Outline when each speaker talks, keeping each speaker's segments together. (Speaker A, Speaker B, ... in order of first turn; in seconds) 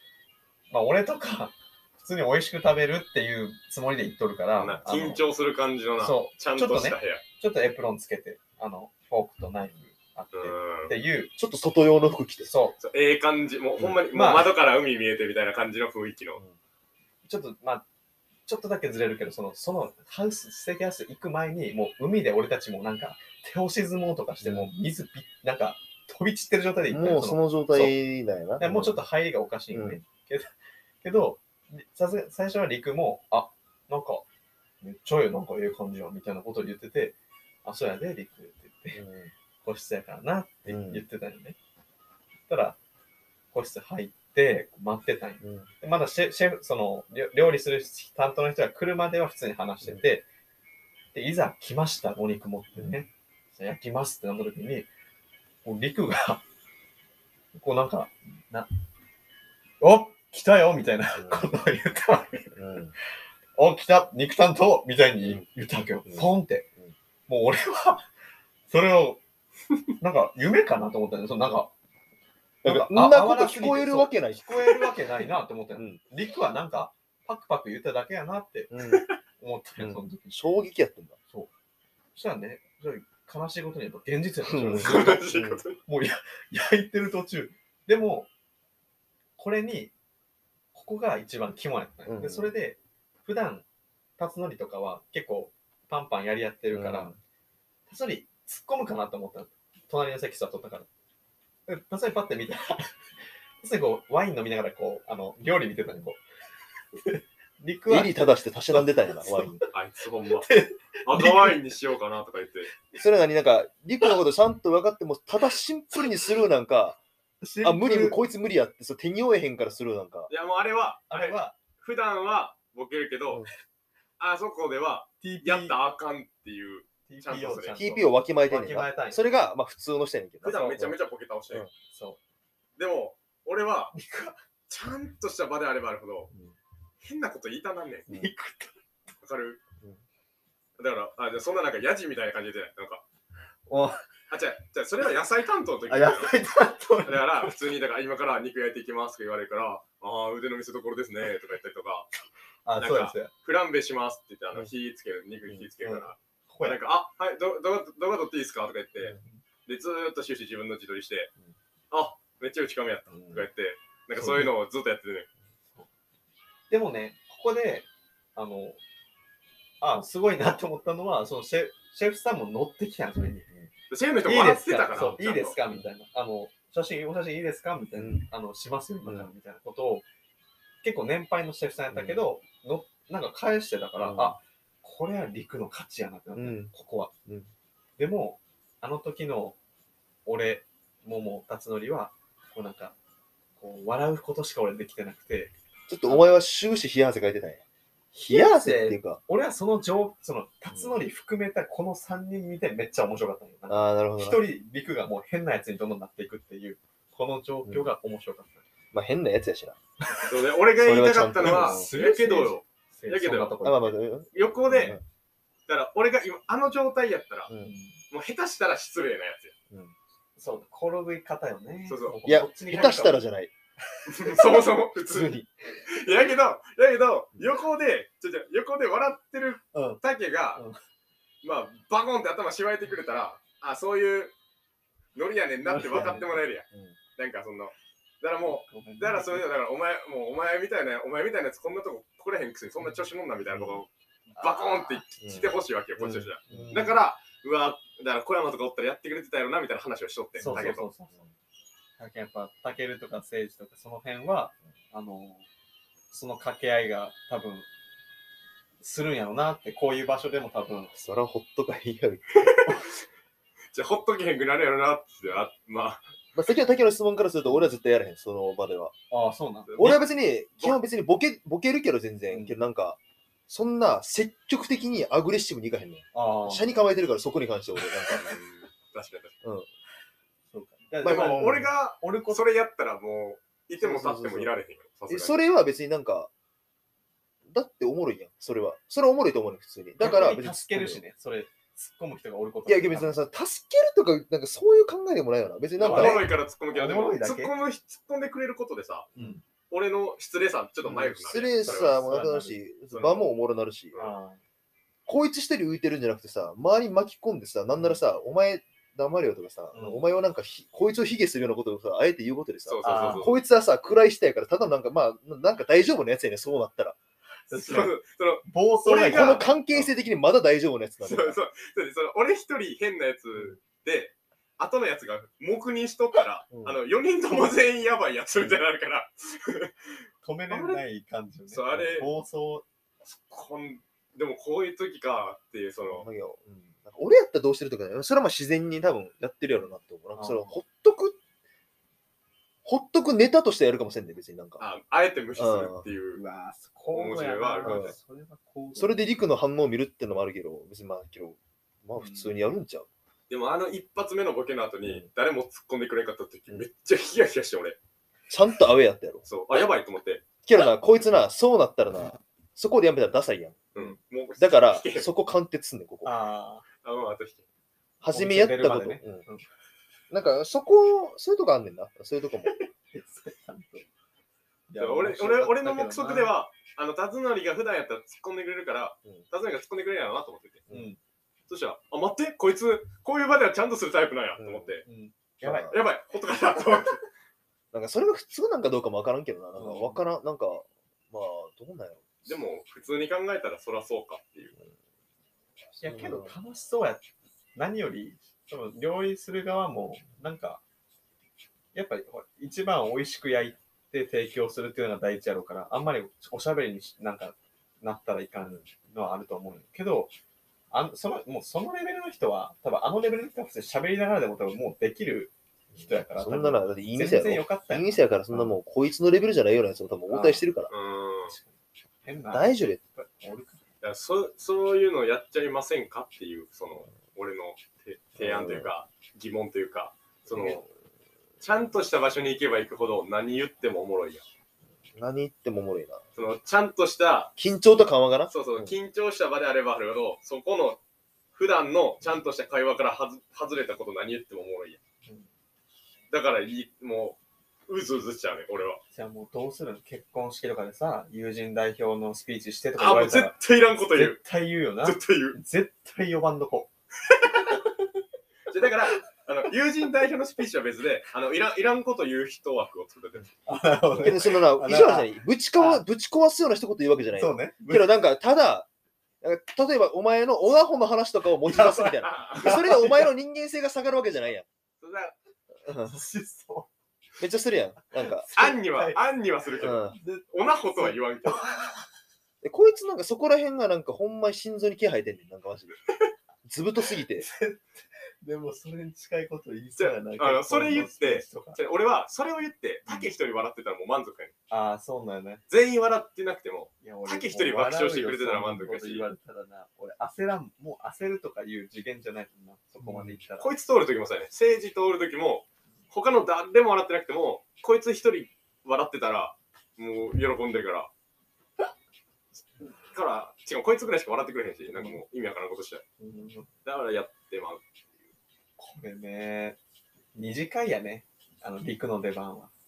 Speaker A: 0.7-5.2, 6.0-11.3, 12.4-12.8, 14.1-14.5, 17.2-17.9, 18.5-28.0, 28.6-30.5, 31.0-34.2, 34.8-39.0, 39.6-41.6, 42.5-42.8, 43.5-50.2, 51.1-54.9, 55.6-56.4, 57.5-58.7, 59.8-62.5, 63.6-66.7, 67.3-68.0, 68.7-69.2, 70.0-71.7, 72.6-78.8, 79.4-80.4, 82.2-85.2, 85.8-88.3, 89.4-89.9, 90.7-93.7, 94.2-97.1, 97.9-100.9, 101.7-102.9, 103.6-106.2, 107.0-109.7, 110.4-111.6, 117.4-118.2, 121.1-121.6, 125.2-125.8, 127.1-129.2, 131.9-132.2, 133.9-134.4, 138.1-138.7, 143.7-144.0, 145.9-147.6, 152.7-153.3, 155.8-156.8, 166.7-168.8, 169.8-173.5, 174.2-180.1, 180.8-187.1, 188.0-189.6, 190.3-192.9, 193.6-195.5, 196.1-196.3, 198.1-208.6, 211.4-214.0, 217.6-218.0, 220.4-223.2, 229.7-230.0, 235.6-236.4, 238.4-239.5, 244.3-245.0, 246.5-247.0, 250.4-251.2, 252.0-255.5, 256.1-257.7, 258.8-260.9, 269.1-270.0, 272.3-272.6, 276.1-276.7, 280.5-282.4, 290.0-293.2, 295.8-297.5, 299.2-299.4, 300.9-302.6, 303.9-304.4, 309.7-310.1, 312.8-313.3, 317.5-319.9, 330.2-332.7, 340.1-340.6, 346.1-349.1, 352.0-352.4, 366.0-366.7, 368.1-369.5, 372.5-373.9, 374.7-376.3, 380.7-381.0, 384.9-385.7, 389.6-390.0, 395.8-400.6, 401.7-410.1, 410.7-418.6, 420.1-420.5, 421.3-423.6, 448.9-453.4, 453.9-456.7, 463.5-465.9, 467.2-468.0, 471.5-473.1, 475.7-476.7, 478.0-479.0, 479.9-481.9, 487.2-491.6, 494.5-495.4, 496.8-503.5, 514.7-515.0, 516.0-516.5, 518.6-519.6, 520.1-522.5
Speaker B: 4.6-7.2, 10.3-10.9, 12.8-16.4, 84.8-85.8, 109.7-110.5, 111.1-112.7, 120.3-123.5, 124.2-127.9, 130.4-131.7, 132.8-133.9, 134.7-136.3, 137.0-138.1, 139.2-139.6, 140.8-143.0, 144.3-146.4, 147.1-152.1, 152.8-161.3, 161.9-165.3, 173.9-175.6, 210.3-213.7, 214.3-215.0, 215.7-217.5, 218.1-219.5, 221.9-222.2, 224.1-225.4, 225.9-230.6, 231.4-234.3, 235.2-236.7, 237.2-243.9, 244.4-250.9, 262.4-262.8, 263.7-266.0, 269.7-270.0, 278.2-279.4, 281.0-285.4, 295.8-299.1, 299.7-302.0, 302.9-303.3, 312.7-313.4, 317.5-319.4, 321.0-329.9, 330.5-330.8, 331.5-332.1, 333.1-336.1, 344.6-346.2, 346.9-347.9, 353.3-357.8, 359.3-360.2, 363.8-365.1, 366.8-367.4, 374.8-380.7, 381.5-384.9, 385.6-387.0, 392.3-394.6, 420.7-421.4, 423.8-430.6, 431.4-434.2, 436.2-437.3, 438.3-440.8, 441.4-444.8, 446.1-448.8, 452.8-454.2, 454.8-455.4, 458.5-463.4, 464.0-464.3, 471.5-472.6, 474.8-475.2, 478.4-481.4, 489.8-494.3, 495.5-499.1, 503.4-510.9, 512.9-515.9, 516.6-517.6
Speaker C: 11.4-12.5, 24.4-24.7, 26.9-29.0, 29.7-30.0, 39.0-39.3, 40.7-41.0, 45.4-45.7, 61.2-61.5, 62.6-62.9, 66.1-66.9, 72.6-74.9, 78.7-79.1, 79.8-81.2, 84.5-85.6, 92.0-92.5, 96.7-97.2, 107.9-109.6, 113.0-117.0, 117.6-120.3, 127.8-131.0, 163.2-163.4, 178.0-178.2, 179.1-179.3, 181.9-182.2, 184.0-184.4, 186.3-186.7, 195.9-197.6, 198.3-199.2, 200.7-201.0, 203.7-204.4, 207.7-207.9, 208.9-209.8, 210.8-211.9, 213.6-215.0, 222.3-223.5, 225.0-225.5, 235.9-236.2, 236.7-237.0, 243.5-243.8, 245.2-246.9, 250.4-251.3, 260.9-262.6, 266.4-268.9, 269.8-273.0, 273.5-278.4, 279.4-279.7, 281.0-281.7, 283.8-284.5, 285.1-286.3, 287.5-291.0, 292.7-296.3, 299.1-299.4, 300.9-304.0, 305.1-317.0, 318.9-321.4, 326.5-326.8, 335.9-341.2, 342.6-344.6, 345.4-345.9, 347.6-348.0, 348.8-352.9, 354.8-355.1, 358.3-359.2, 360.5-363.7, 364.4-366.1, 368.0-369.2, 370.1-372.6, 384.4-384.7, 385.4-385.8, 387.7-392.1, 395.8-396.3, 415.8-420.7, 422.3-422.8, 428.2-428.7, 430.3-430.6, 435.0-436.1, 437.4-438.8, 464.0-468.7, 469.2-474.5, 475.7-476.0, 477.2-478.3, 479.6-480.0, 482.4-485.8, 486.4-487.3, 502.8-503.2